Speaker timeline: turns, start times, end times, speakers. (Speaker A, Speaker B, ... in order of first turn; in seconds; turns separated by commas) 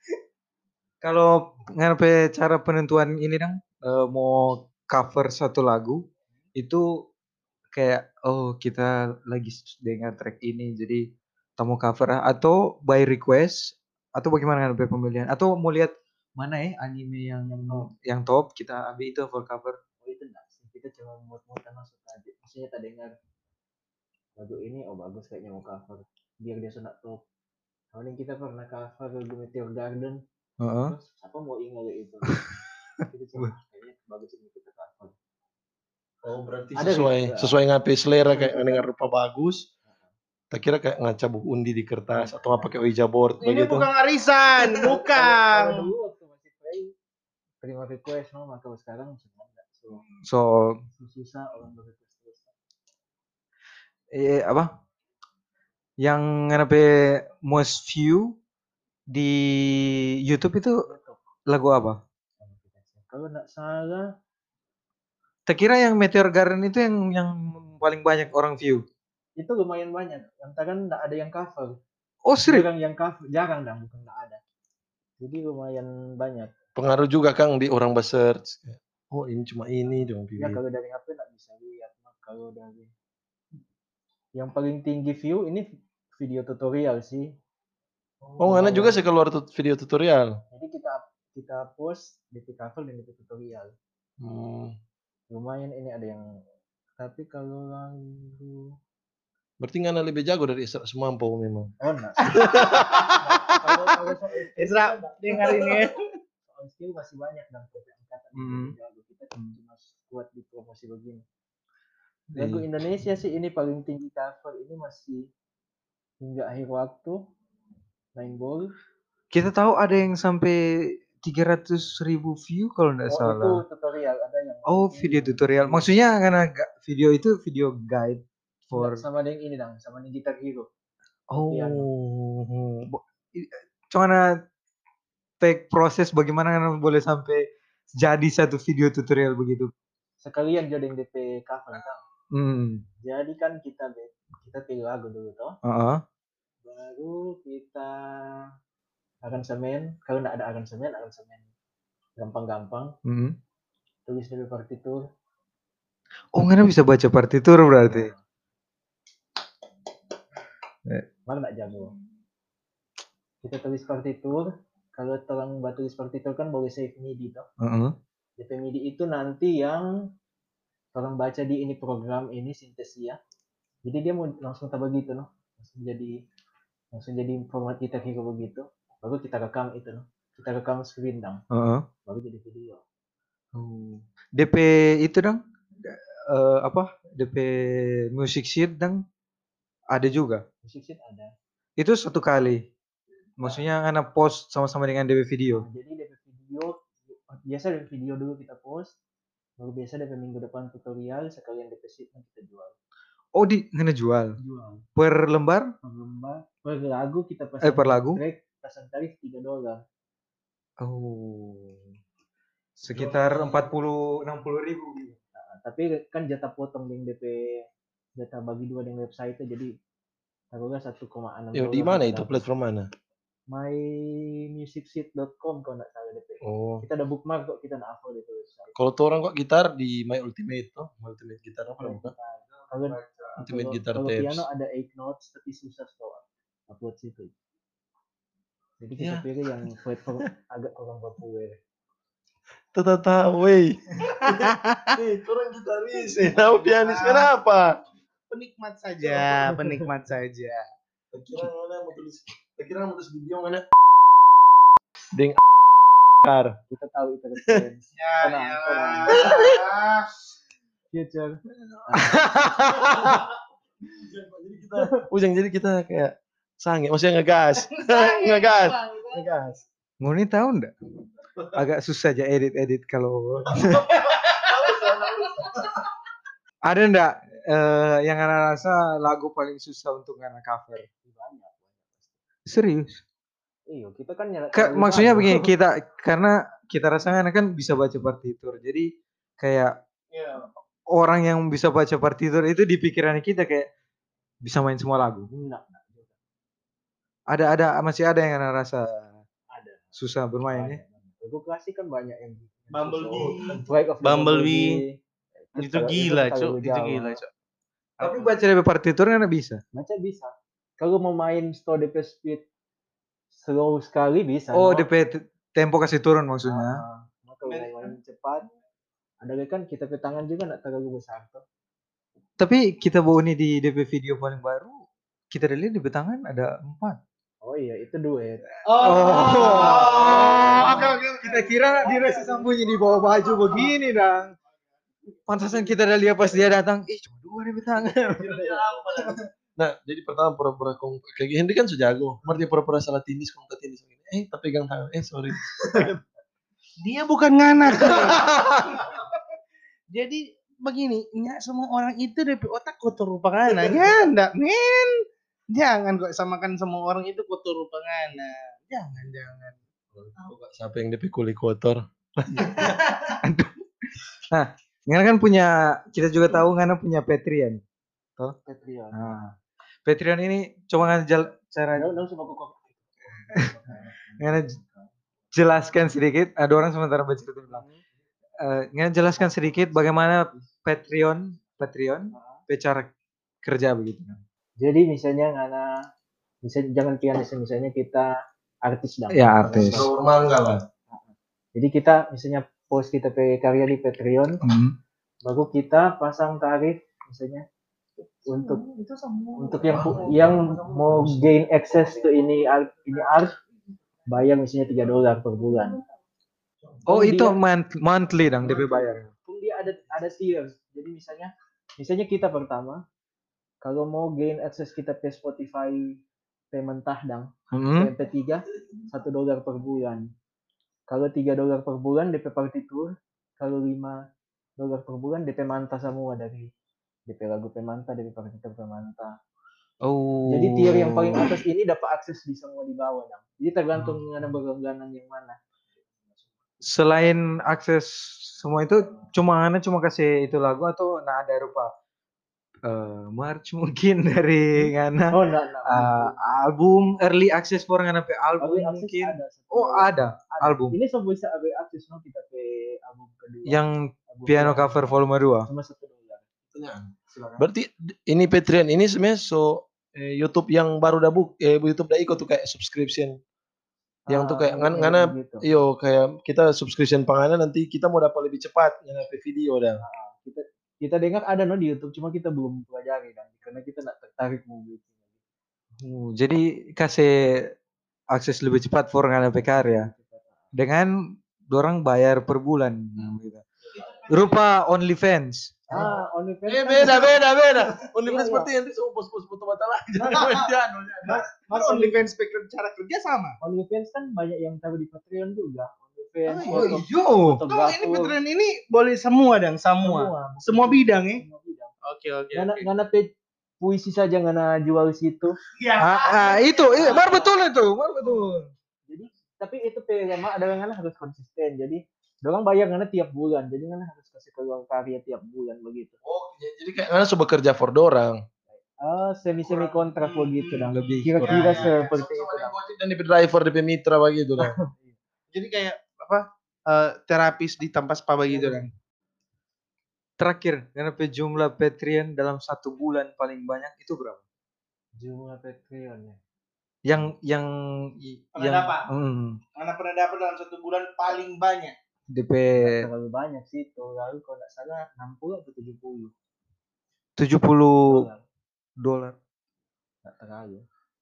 Speaker A: 1.0-6.0, Speaker A: 6.5-6.9, Speaker A: 7.7-11.0, Speaker A: 11.6-19.8, Speaker B: 20.0-23.1, Speaker B: 24.4-27.2, Speaker B: 27.9-30.2, Speaker A: 30.6-30.9, Speaker B: 30.9-35.1, Speaker C: 36.2-39.7, Speaker B: 36.8-37.5, Speaker B: 38.2-38.9, Speaker C: 40.5-43.9, Speaker D: 43.4-45.7, Speaker B: 44.8-46.9, Speaker B: 47.6-50.0, Speaker A: 50.2-50.8, Speaker B: 50.9-52.5, Speaker A: 54.1-54.7, Speaker A: 56.0-58.3, Speaker A: 59.1-60.8, Speaker B: 60.9-61.2, Speaker A: 61.5-62.0, Speaker B: 62.4-64.1, Speaker A: 65.5-68.8, Speaker B: 69.4-71.8, Speaker A: 72.2-72.7, Speaker B: 72.4-74.4, Speaker B: 75.2-76.5, Speaker C: 76.8-80.6, Speaker B: 80.4-82.9, Speaker B: 84.4-87.3, Speaker B: 88.2-89.0, Speaker C: 88.4-90.4, Speaker B: 90.5-93.8, Speaker C: 94.2-94.8, Speaker B: 95.3-96.3, Speaker B: 97.0-98.8, Speaker C: 99.6-103.2, Speaker B: 101.8-102.4, Speaker D: 102.3-104.0, Speaker B: 103.2-105.6, Speaker D: 104.6-106.0, Speaker B: 106.5-111.2, Speaker A: 108.3-108.8, Speaker B: 112.3-115.3, Speaker A: 112.4-112.7, Speaker B: 116.2-117.2, Speaker B: 118.2-118.7, Speaker A: 119.3-123.6, Speaker B: 123.1-125.9, Speaker A: 124.7-129.0, Speaker B: 128.7-130.7, Speaker A: 131.3-134.2, Speaker B: 131.4-131.9, Speaker A: 135.4-139.7, Speaker B: 140.2-142.0, Speaker A: 142.3-142.8, Speaker B: 143.0-145.6, Speaker A: 145.6-146.0, Speaker B: 146.6-148.4, Speaker B: 149.2-151.5, Speaker B: 152.2-152.9, Speaker A: 153.1-153.4, Speaker B: 154.1-155.1, Speaker A: 156.4-158.1, Speaker B: 157.8-158.2, Speaker B: 161.3-161.9, Speaker B: 163.4-167.5, Speaker A: 167.6-167.9, Speaker B: 168.4-169.9, Speaker B: 170.9-173.2, Speaker B: 173.8-176.2, Speaker B: 176.9-181.4, Speaker A: 181.5-181.9, Speaker B: 182.1-182.8, Speaker A: 183.6-189.0, Speaker A: 189.9-190.4, Speaker B: 190.6-191.3, Speaker A: 191.8-192.6, Speaker A: 193.4-195.7, Speaker B: 195.6-198.9, Speaker B: 199.6-202.8, Speaker A: 203.3-204.4, Speaker B: 204.4-204.8, Speaker A: 205.0-205.7, Speaker B: 205.8-209.8, Speaker A: 207.6-208.2, Speaker A: 210.8-211.9, Speaker A: 212.8-215.2, Speaker B: 215.4-219.7, Speaker B: 220.5-222.4, Speaker C: 221.5-222.9, Speaker B: 223.5-228.7, Speaker C: 226.4-226.8, Speaker C: 228.8-232.1, Speaker B: 231.8-237.3, Speaker A: 232.7-233.3, Speaker C: 233.4-234.4, Speaker B: 238.8-241.6, Speaker C: 239.0-239.7, Speaker C: 242.7-247.7, Speaker D: 244.2-245.0, Speaker D: 246.4-247.3, Speaker D: 248.3-250.6, Speaker B: 249.2-249.8, Speaker C: 251.1-253.7, Speaker C: 255.1-255.4, Speaker C: 256.1-256.6, Speaker B: 256.7-259.3, Speaker D: 258.0-260.1, Speaker C: 259.2-259.6, Speaker B: 260.9-262.9, Speaker A: 261.8-263.2, Speaker C: 262.8-263.2, Speaker C: 263.9-268.8, Speaker D: 267.8-269.2, Speaker B: 269.1-269.6, Speaker A: 270.0-270.7, Speaker A: 271.5-273.9, Speaker D: 273.9-275.4, Speaker C: 274.4-275.6, Speaker A: 276.6-280.9, Speaker B: 281.0-282.1, Speaker A: 282.5-283.0, Speaker B: 283.7-285.5, Speaker A: 284.5-288.9, Speaker A: 289.4-289.7, Speaker D: 290.1-290.5, Speaker A: 290.9-293.7, Speaker A: 294.4-295.3, Speaker B: 295.3-296.1, Speaker A: 297.3-299.2, Speaker B: 299.5-299.9, Speaker A: 299.9-300.8, Speaker B: 300.5-307.2, Speaker D: 302.7-304.8, Speaker D: 305.6-307.3, Speaker D: 308.0-308.4, Speaker A: 308.0-309.6, Speaker B: 309.7-312.4, Speaker B: 313.4-314.9, Speaker A: 314.5-316.8, Speaker B: 316.4-318.5, Speaker D: 317.5-317.9, Speaker B: 319.2-321.4, Speaker A: 322.4-324.8, Speaker A: 325.3-327.0, Speaker B: 327.4-328.5, Speaker D: 328.7-332.5, Speaker A: 328.7-334.3, Speaker B: 329.3-330.9, Speaker B: 331.9-332.3, Speaker D: 333.3-333.7, Speaker A: 335.3-338.3, Speaker C: 338.1-346.0, Speaker D: 338.3-338.8, Speaker D: 346.8-349.2, Speaker C: 347.8-348.6, Speaker D: 349.9-354.9, Speaker D: 355.5-359.6, Speaker C: 359.9-362.8, Speaker D: 362.6-363.1, Speaker A: 363.2-363.5, Speaker A: 364.3-367.6, Speaker B: 368.4-369.2, Speaker A: 368.9-369.3, Speaker A: 369.9-371.9, Speaker B: 371.8-374.9, Speaker A: 374.2-374.6, Speaker A: 375.3-377.6, Speaker A: 378.4-382.9, Speaker B: 380.1-380.4, Speaker B: 382.1-382.4, Speaker A: 383.4-384.2, Speaker B: 384.6-385.8, Speaker B: 386.4-389.9, Speaker A: 389.1-389.9, Speaker C: 389.4-390.6, Speaker B: 390.9-394.4, Speaker A: 394.4-394.8, Speaker B: 395.2-397.4, Speaker B: 398.2-398.6, Speaker B: 399.4-403.4, Speaker C: 399.7-400.7, Speaker B: 404.1-405.8, Speaker B: 406.9-407.4, Speaker A: 406.9-409.1, Speaker B: 408.4-412.8, Speaker B: 413.6-416.0, Speaker B: 416.5-420.1, Speaker A: 417.5-417.9, Speaker B: 420.9-424.0, Speaker B: 424.6-426.5, Speaker B: 427.1-429.1, Speaker A: 429.8-431.3, Speaker B: 430.3-435.4, Speaker A: 433.8-434.0, Speaker A: 436.6-441.7, Speaker A: 442.6-450.8, Speaker B: 444.6-446.4, Speaker B: 448.4-456.3, Speaker A: 453.5-455.5, Speaker C: 456.5-463.1, Speaker A: 457.1-457.4, Speaker B: 464.1-465.5, Speaker C: 464.1-469.8, Speaker B: 469.8-475.0, Speaker A: 475.8-477.5, Speaker A: 478.1-479.9, Speaker B: 479.4-480.5, Speaker A: 480.6-480.9, Speaker A: 481.5-483.4, Speaker D: 483.8-484.4, Speaker A: 484.1-485.9, Speaker B: 485.7-487.4, Speaker C: 486.5-491.2, Speaker B: 488.0-488.5, Speaker D: 490.2-490.5, Speaker D: 491.1-493.4, Speaker B: 491.5-492.0, Speaker B: 493.4-498.2, Speaker D: 496.3-496.8, Speaker A: 496.5-497.4, Speaker D: 497.5-501.2, Speaker B: 499.8-501.7, Speaker D: 501.9-502.7, Speaker B: 502.3-503.1, Speaker B: 503.6-505.4, Speaker D: 505.6-507.3, Speaker A: 505.8-508.5, Speaker B: 506.8-507.3, Speaker B: 508.9-516.0, Speaker C: 516.0-518.2, Speaker B: 518.5-522.6, Speaker D: 519.4-521.9, Speaker A: 520.7-521.7, Speaker C: 521.7-524.5, Speaker B: 524.4-525.0, Speaker D: 525.3-528.7, Speaker B: 528.3-528.7, Speaker A: 530.2-534.2, Speaker B: 535.0-536.2, Speaker A: 536.9-539.4, Speaker D: 538.4-538.9, Speaker D: 539.6-541.8, Speaker A: 542.1-542.9, Speaker B: 542.5-546.1, Speaker A: 547.2-548.1, Speaker B: 547.9-548.2, Speaker A: 548.8-549.2, Speaker B: 550.0-550.6